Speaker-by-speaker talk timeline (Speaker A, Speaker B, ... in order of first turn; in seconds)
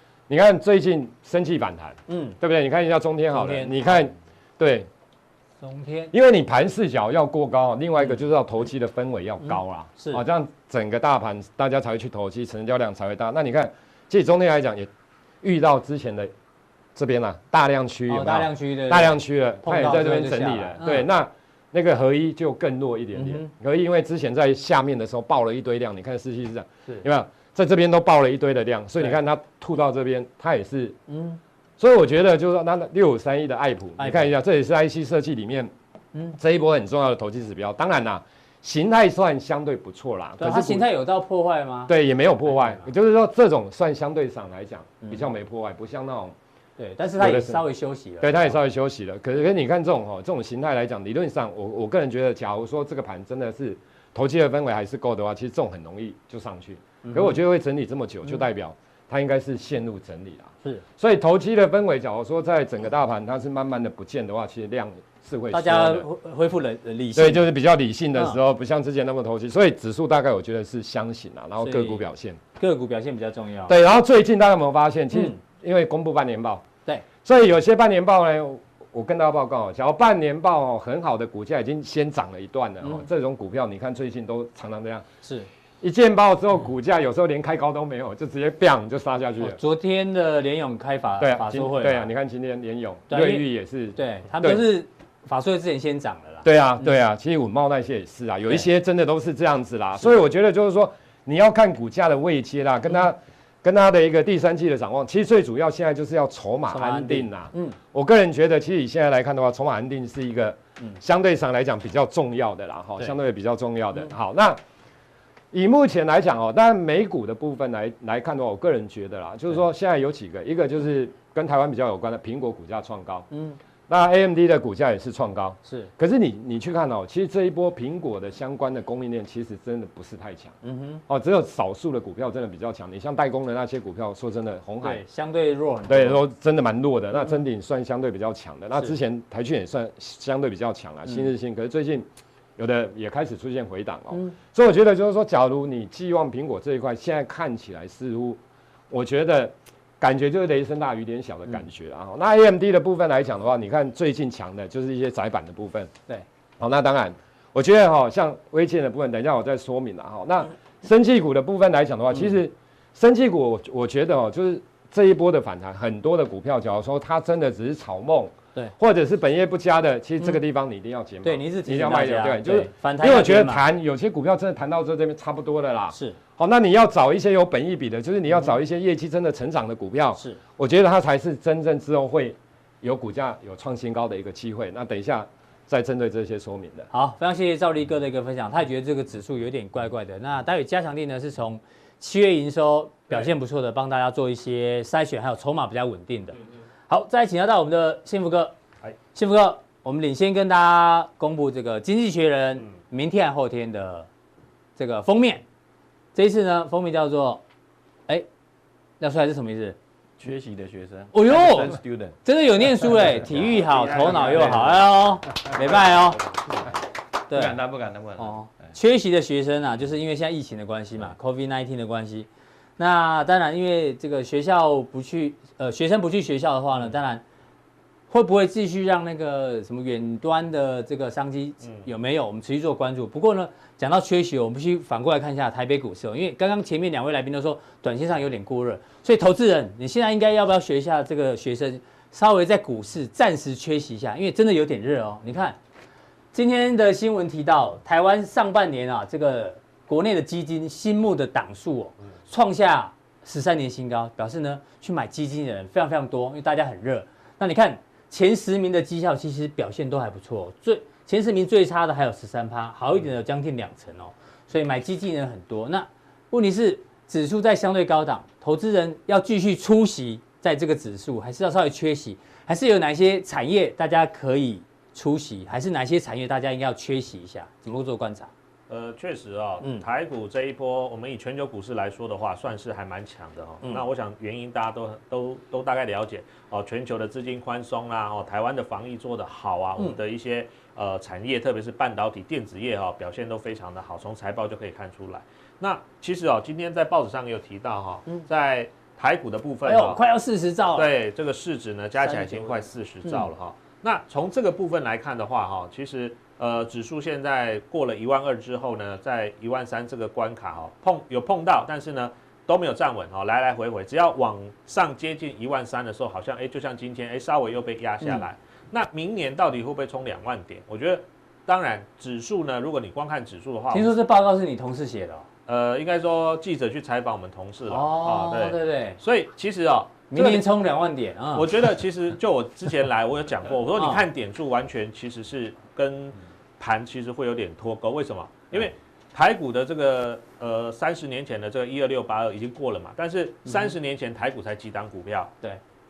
Speaker A: 0.3-4.9, 6.1-14.9, 15.4-16.3, 16.9-31.0, 31.8-35.7, 36.4-40.9, 41.9-46.3, 47.2-47.6, 48.2-66.1, 67.1-72.4, 73.7-76.6, 77.2-85.0, 85.8-89.6, 91.2-94.6, 96.4-114.6, 115.5-123.3, 123.9-130.6, 131.1-135.0, 135.9-142.1, 142.6-155.9, 156.6-186.9
Speaker B: 2.1-2.4, 3.3-4.0, 5.6-6.1, 9.4-10.2, 18.1-21.1, 23.1-23.5, 31.1-31.4, 34.0-34.3, 40.4-41.9, 42.5-42.9, 45.0-45.3, 46.8-48.6, 57.0-57.4, 65.5-67.5, 71.6-72.0, 72.5-73.8, 75.1-75.4, 85.2-85.5, 89.4-92.1, 93.1-96.9, 106.7-107.8, 123.3-123.6, 130.6-131.0, 134.8-136.2, 171.2-173.6, 175.9-176.2, 186.9-198.5, 199.1-204.1, 204.8-205.4, 206.1-207.4, 209.0-209.8, 211.1-216.2, 217.3-217.6, 218.2-227.2, 228.1-245.6, 246.3-278.3, 279.6-279.9, 299.6-300.9, 302.0-303.3, 318.0-318.3, 323.7-325.2, 327.7-329.0, 330.1-331.7, 333.7-334.0, 343.4-343.7
Speaker C: 210.2-212.2, 212.8-213.4, 214.1-214.7, 215.3-216.7, 217.3-218.7
Speaker D: 213.2-214.8, 231.6-231.9, 278.7-300.0, 300.7-323.9, 325.5-330.5, 331.3-345.3